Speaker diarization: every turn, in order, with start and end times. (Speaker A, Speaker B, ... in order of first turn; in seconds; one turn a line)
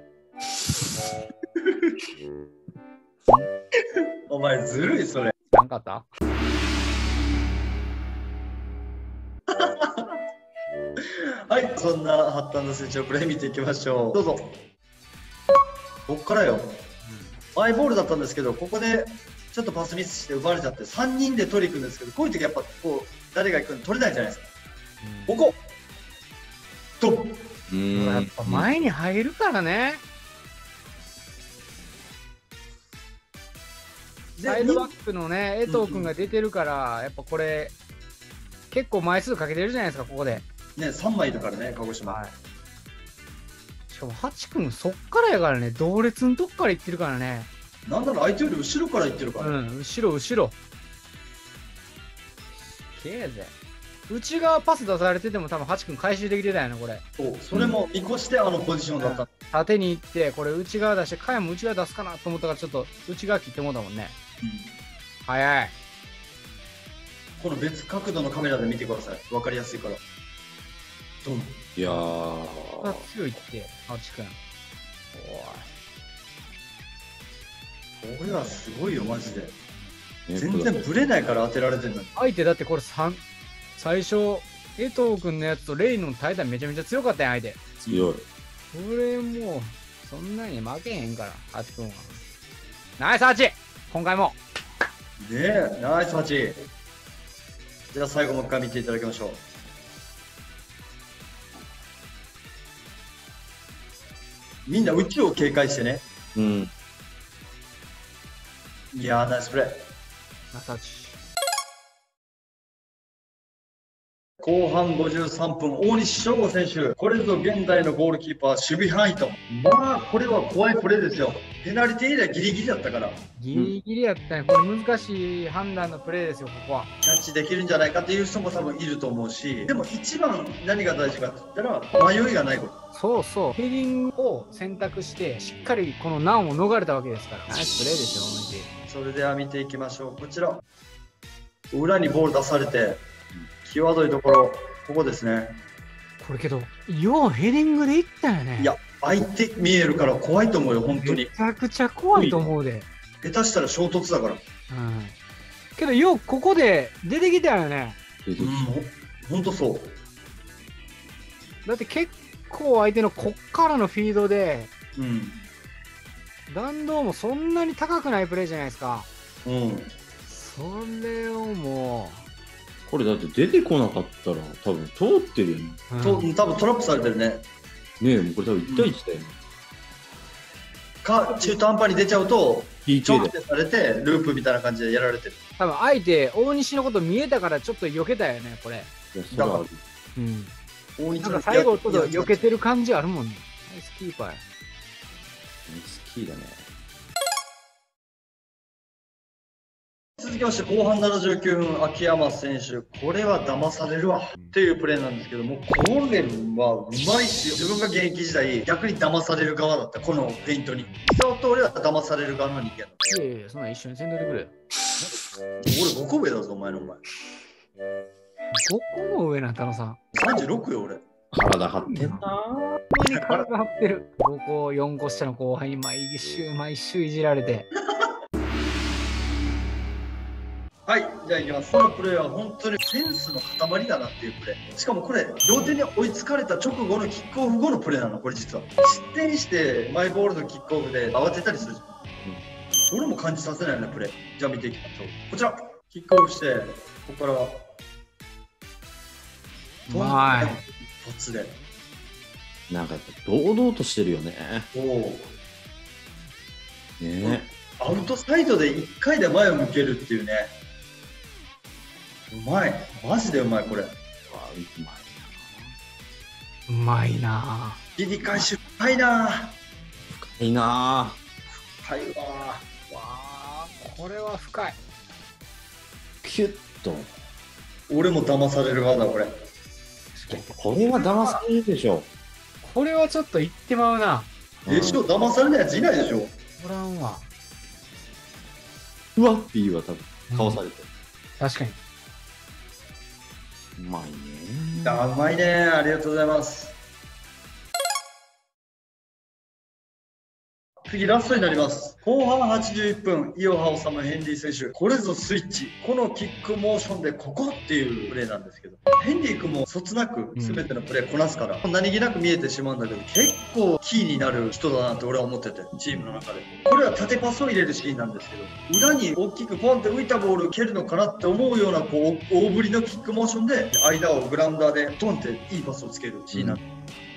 Speaker A: 4.3-5.3
Speaker B: 5.5-6.1
Speaker A: 9.5-10.2
Speaker A: 11.0-14.6
Speaker A: 16.1-16.8
Speaker B: 17.0-17.4
Speaker A: 17.6-24.5
Speaker B: 25.0-25.4
Speaker A: 25.3-25.6
Speaker A: 27.0-27.5
Speaker C: 27.7-28.7
Speaker B: 27.9-30.0
Speaker A: 34.4-34.9
Speaker B: 34.5-37.8
Speaker A: 35.7-36.1
Speaker B: 38.7-40.5
Speaker A: 40.8-42.2
Speaker B: 42.1-42.3
Speaker B: 43.9-47.5
Speaker A: 47.9-49.6
Speaker B: 49.4-50.5
Speaker B: 53.0-53.5
Speaker B: 54.1-57.0
Speaker A: 57.2-59.3
Speaker C: 57.5-57.8
Speaker B: 59.0-64.2
Speaker A: 64.4-64.7
Speaker B: 65.3-65.7
Speaker A: 67.4-70.0
Speaker A: 71.2-71.7
Speaker C: 71.8-73.1
Speaker B: 72.8-74.4
Speaker B: 75.1-75.7
Speaker A: 78.0-79.5
Speaker C: 80.3-80.8
Speaker A: 80.4-82.1
Speaker B: 82.2-83.2
Speaker B: 83.8-88.0
Speaker C: 87.9-88.2
Speaker B: 88.7-92.2
Speaker B: 93.0-94.4
Speaker A: 95.2-96.7
Speaker A: 97.9-99.4
Speaker A: 104.7-106.0
Speaker C: 106.3-106.7
Speaker A: 108.9-109.8
Speaker B: 110.5-111.2
Speaker A: 114.4-123.2
Speaker B: 123.4-126.9
Speaker A: 127.0-132.8
Speaker B: 132.9-138.7
Speaker A: 138.9-140.6
Speaker A: 141.7-143.0
Speaker A: 143.7-145.6
Speaker B: 146.2-148.8
Speaker A: 148.6-151.3
Speaker B: 151.0-152.9
Speaker C: 152.1-152.5
Speaker A: 153.2-154.4
Speaker B: 154.7-155.2
Speaker B: 155.8-158.0
Speaker C: 158.2-158.7
Speaker A: 158.4-160.0
Speaker B: 161.7-164.7
Speaker A: 165.0-165.4
Speaker B: 166.5-169.1
Speaker A: 169.4-169.9
Speaker B: 170.3-172.2
Speaker C: 172.9-175.8
Speaker B: 175.9-176.3
Speaker A: 176.0-177.4
Speaker C: 178.0-179.3
Speaker A: 178.7-178.9
Speaker A: 181.0-185.4
Speaker C: 182.9-183.3
Speaker B: 185.6-188.9
Speaker C: 189.1-189.8
Speaker A: 189.3-189.7
Speaker B: 190.2-190.6
Speaker A: 191.0-192.5
Speaker B: 191.2-194.4
Speaker C: 195.7-196.7
Speaker A: 200.2-212.9
Speaker B: 213.1-214.6
Speaker A: 215.0-217.0
Speaker B: 218.5-220.0
Speaker A: 220.1-221.0
Speaker C: 221.3-222.8
Speaker B: 221.8-222.2
Speaker B: 222.9-227.7
Speaker A: 223.1-223.5
Speaker A: 230.9-241.9
Speaker A: 242.8-247.6
Speaker B: 249.9-250.6
Speaker A: 249.9-251.6
Speaker C: 252.7-254.7
Speaker A: 254.7-255.3
Speaker C: 257.0-257.5
Speaker A: 257.2-260.5
Speaker A: 262.3-263.9
Speaker C: 264.3-265.8
Speaker B: 266.7-267.8
Speaker A: 268.0-269.6
Speaker C: 270.2-271.2
Speaker A: 271.7-272.6
Speaker B: 272.9-274.8
Speaker C: 276.2-277.1
Speaker A: 277.9-279.3
Speaker B: 280.1-281.4
Speaker C: 280.3-282.1
Speaker B: 282.6-284.3
Speaker C: 284.6-285.0
Speaker A: 284.7-286.3
Speaker B: 286.6-287.3
Speaker C: 289.2-290.9
Speaker B: 290.3-290.6
Speaker B: 291.4-291.8
Speaker C: 293.8-295.1
Speaker A: 294.8-296.8
Speaker A: 300.9-326.6
Speaker B: 310.4-310.6
Speaker C: 326.3-326.6